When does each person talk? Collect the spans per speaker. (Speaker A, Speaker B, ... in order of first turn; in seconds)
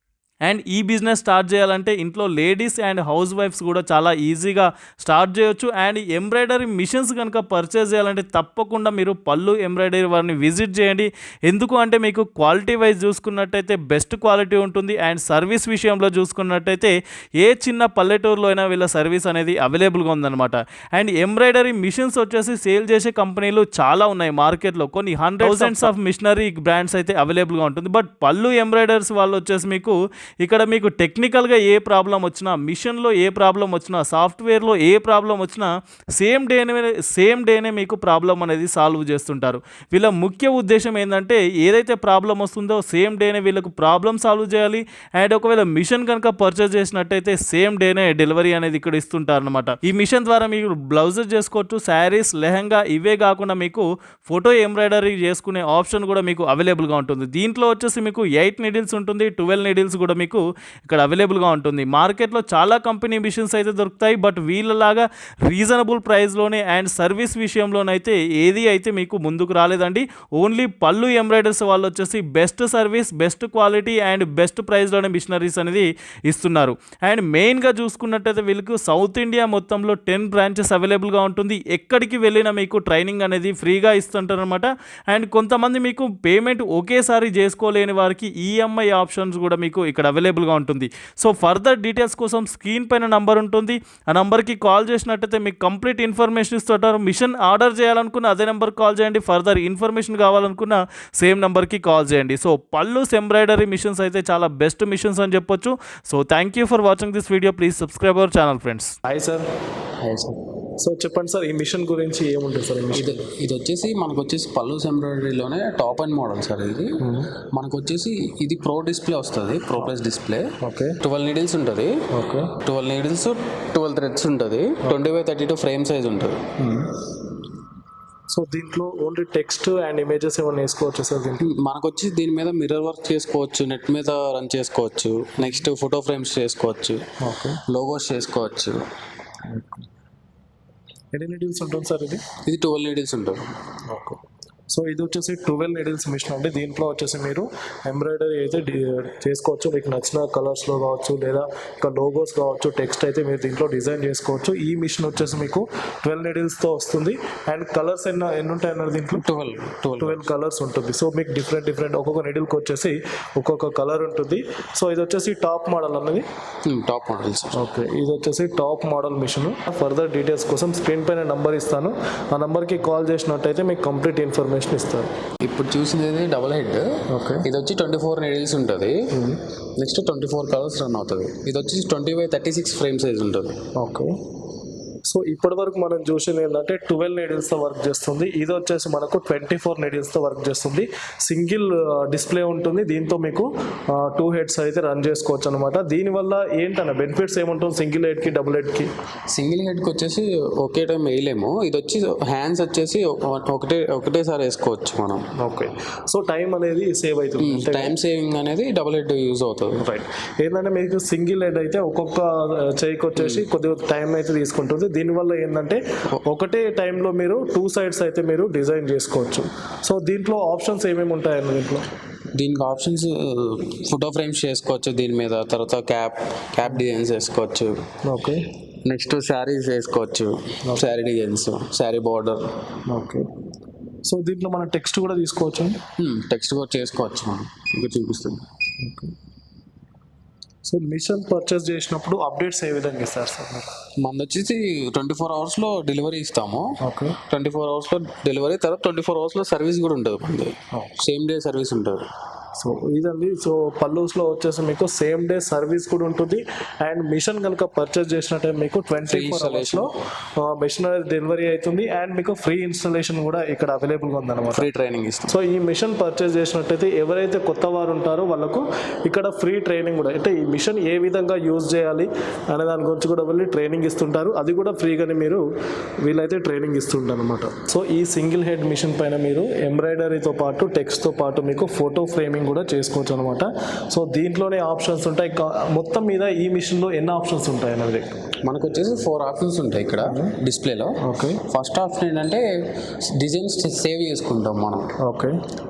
Speaker A: 0.5-108.9
Speaker B: 25.4-25.9, 109.1-109.4, 110.8-113.3, 117.0-117.3, 120.6-121.0, 122.1-122.5, 126.6-126.9, 128.3-131.5, 137.2-137.6, 139.5-139.8, 141.1-142.2, 143.9-159.2, 160.0-166.2, 167.5-175.1, 177.1-177.4, 179.1-179.4, 183.8-184.1, 185.1-198.9, 205.4-207.9, 209.8-221.8, 228.1-228.4, 232.9-233.3, 234.0-235.8, 238.8-239.1, 240.7-243.7, 246.8-247.2, 252.6-264.6, 265.3-275.4, 276.0-288.1, 290.0-290.4, 291.0-291.4, 295.0-295.4
Speaker C: 110.0-110.4, 112.9-121.9, 122.6-126.4, 131.4-137.0, 137.7-138.8, 142.4-143.5, 159.1-160.2, 166.7-167.6, 175.4-179.0, 179.8-183.6, 199.3-205.2, 207.4-209.8, 213.2-213.4, 222.3-227.7, 228.8-232.5, 236.0-238.4, 244.0-246.7, 247.3-252.1, 259.1-259.9, 264.5-265.3, 288.4-294.9